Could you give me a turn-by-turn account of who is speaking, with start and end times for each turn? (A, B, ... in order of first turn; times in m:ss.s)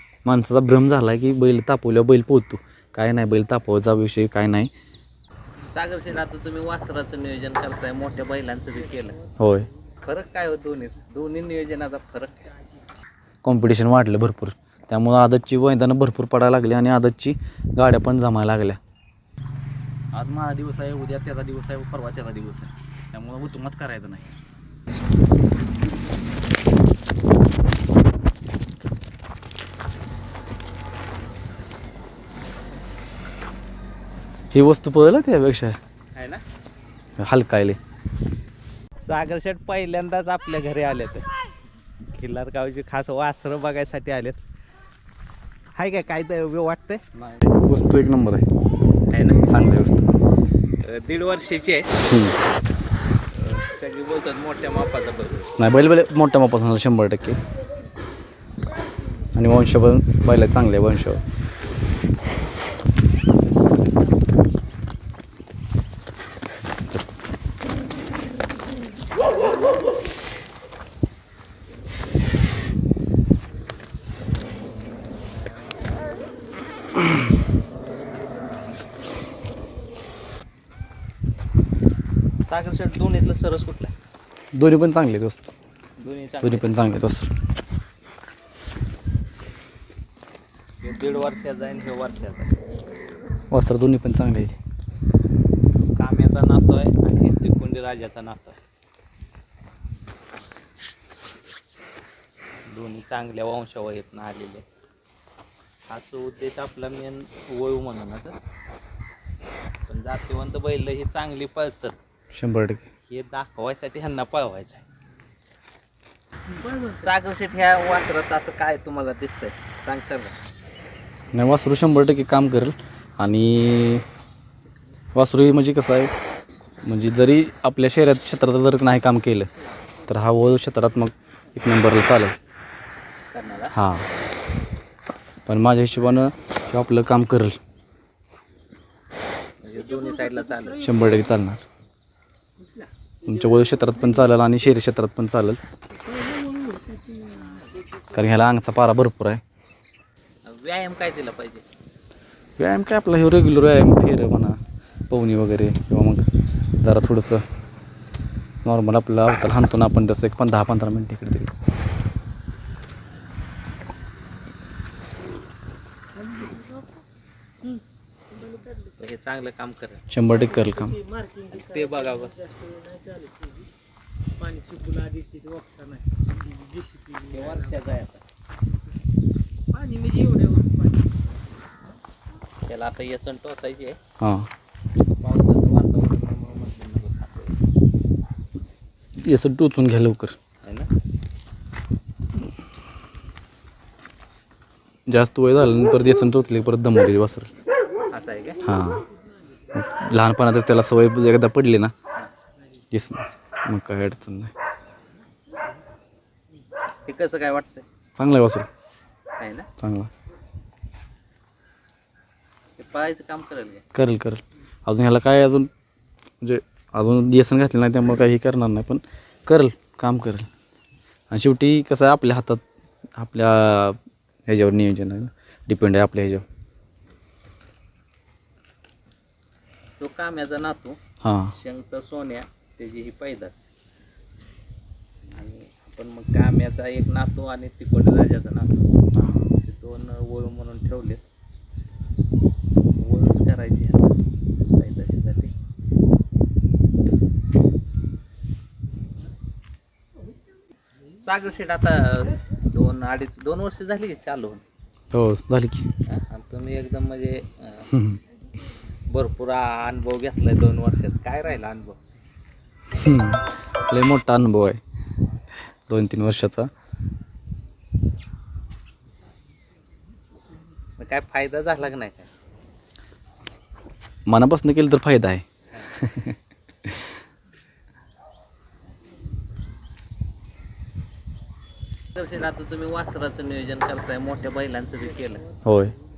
0:00.3-0:04.7 A
0:05.7-0:09.3 B
0:09.4-0:09.7 A
0:10.0-0:12.5 B
0:13.4-0:18.8 A
0:20.1-0:24.2 A
0:34.5-0:35.8 A
0:36.2-0:36.4 B
0:37.2-0:37.8 A
0:39.0-0:41.2 B
0:42.1-0:44.4 B
0:45.8-0:47.0 B
0:47.2-0:48.4 A
0:49.1-0:49.4 B
0:49.5-0:50.1 A
0:50.8-0:51.9 B
0:52.0-0:52.4 A
0:53.3-0:55.5 B
0:55.6-0:57.4 A
0:59.3-1:01.2 A
1:22.4-1:23.9 B
1:24.5-1:25.5 A
1:26.0-1:26.8 B
1:26.4-1:27.3 A
1:30.8-1:32.5 B
1:33.5-1:34.6 A
1:36.0-1:38.6 B
1:42.7-1:44.6 B
1:45.9-1:48.4 B
1:49.9-1:52.0 B
1:52.3-1:52.9 A
1:53.1-1:54.8 B
1:56.5-2:00.4 B
2:01.3-2:04.0 A
2:05.2-2:06.1 A
2:06.8-2:09.5 A
2:10.1-2:12.3 A
2:13.3-2:13.7 B
2:13.7-2:14.1 A
2:15.5-2:17.6 A
2:19.6-2:20.9 B
2:20.8-2:21.6 A
2:23.2-2:25.6 A
2:26.1-2:27.7 B
2:28.1-2:29.4 A
2:30.5-2:31.6 B
2:32.6-2:34.6 A
2:35.1-2:36.2 A
2:36.8-2:37.4 A
2:38.6-2:41.5 A
2:48.8-2:50.0 B
2:50.1-2:51.0 A
2:51.5-2:52.4 B
2:54.9-2:56.0 B
2:57.2-2:58.2 B
2:59.8-3:00.7 B
3:02.7-3:04.0 B
3:04.2-3:04.5 A
3:05.2-3:07.6 B
3:09.2-3:10.4 A
3:15.1-3:17.5 A
3:18.1-3:18.6 B
3:18.6-3:19.0 A
3:19.7-3:21.9 A
3:22.9-3:24.5 A
3:27.1-3:27.8 B
3:28.2-3:28.7 A
3:29.4-3:29.7 B
3:29.8-3:30.1 A
3:32.8-3:33.8 B
3:33.9-3:35.7 A
3:36.4-3:40.5 A
3:41.3-3:42.6 A
3:43.2-3:46.4 A
3:50.0-3:51.0 B
3:51.2-3:51.5 A
3:51.5-3:53.7 B
3:55.4-3:58.8 B
3:59.2-3:59.5 A
3:59.6-4:01.2 B
4:03.0-4:04.2 B
4:04.7-4:05.5 B
4:11.2-4:14.6 B
4:15.1-4:15.9 A
4:16.1-4:17.9 B
4:17.9-4:18.2 A
4:19.1-4:22.0 B
4:22.9-4:24.8 A
4:25.9-4:26.7 A
4:31.0-4:32.3 B
4:34.3-4:37.0 A
4:42.1-4:45.5 B
4:45.6-4:45.9 A